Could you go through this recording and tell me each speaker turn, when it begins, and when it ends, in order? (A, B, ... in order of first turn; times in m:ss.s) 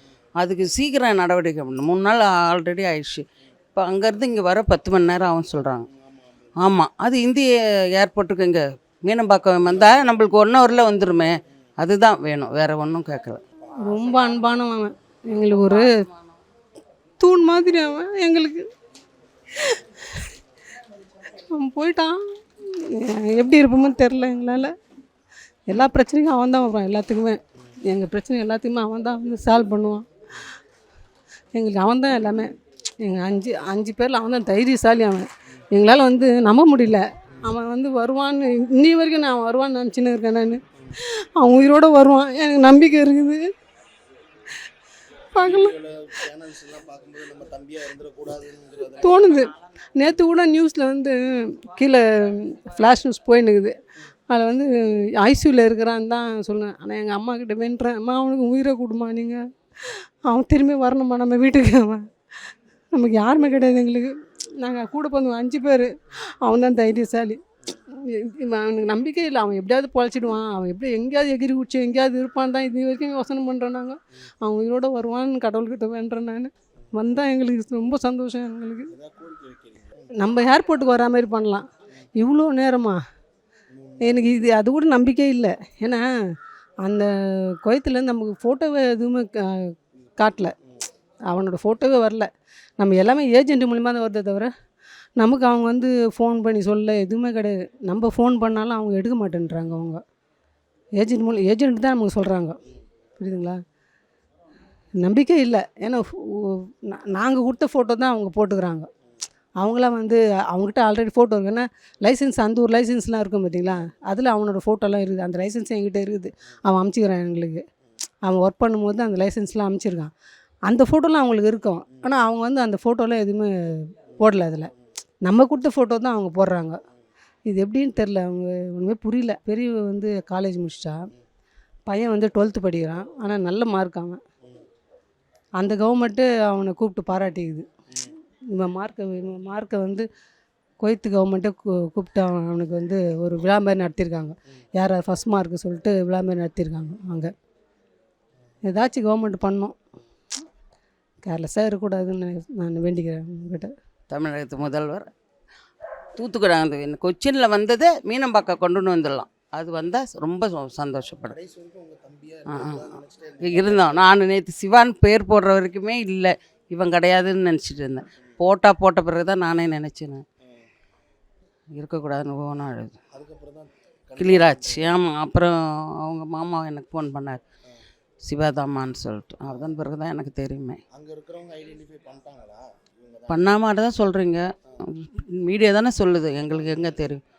0:00.4-0:05.8 A
0:05.9-0:06.5 B
0:06.6-0:13.4 A
0:09.8-0:10.0 B
0:13.8-0:16.0 C
0:15.6-0:16.0 A
0:17.2-0:18.7 C
0:19.6-0:20.3 C
0:21.5-0:24.7 C
0:25.7-0:30.0 C
0:31.5-0:32.5 C
0:33.0-0:43.4 C
0:45.3-0:45.8 C
0:45.4-0:49.4 B
0:48.9-0:53.8 C
0:54.3-1:02.0 C
1:02.9-1:05.9 C
1:06.4-1:18.9 C
1:18.9-1:20.0 B
1:20.2-1:23.0 C
1:23.7-1:24.4 B
1:24.0-1:26.0 C
1:26.8-1:30.5 C
1:31.3-1:32.3 C
1:32.8-1:34.5 C
1:35.2-1:40.0 C
1:41.0-1:42.6 C
1:43.2-1:43.6 C
1:45.0-1:48.9 C
1:49.6-1:57.6 C
1:58.2-2:00.1 C
2:00.7-2:04.7 C
2:05.2-2:06.8 C
2:07.5-2:11.0 C
2:11.9-2:14.2 C
2:15.6-2:17.7 C
2:18.5-2:20.1 C
2:20.8-2:27.3 C
2:28.6-2:29.8 C
2:31.2-2:33.7 C
2:34.1-2:35.1 A
2:36.2-2:41.3 A
2:41.2-2:44.2 B
2:42.5-2:50.2 A
2:51.8-2:53.0 A
2:53.1-2:55.0 B
2:54.2-2:57.4 A
2:58.2-3:00.8 A
3:00.9-3:03.6 B
3:03.3-3:07.2 A
3:06.4-3:07.1 B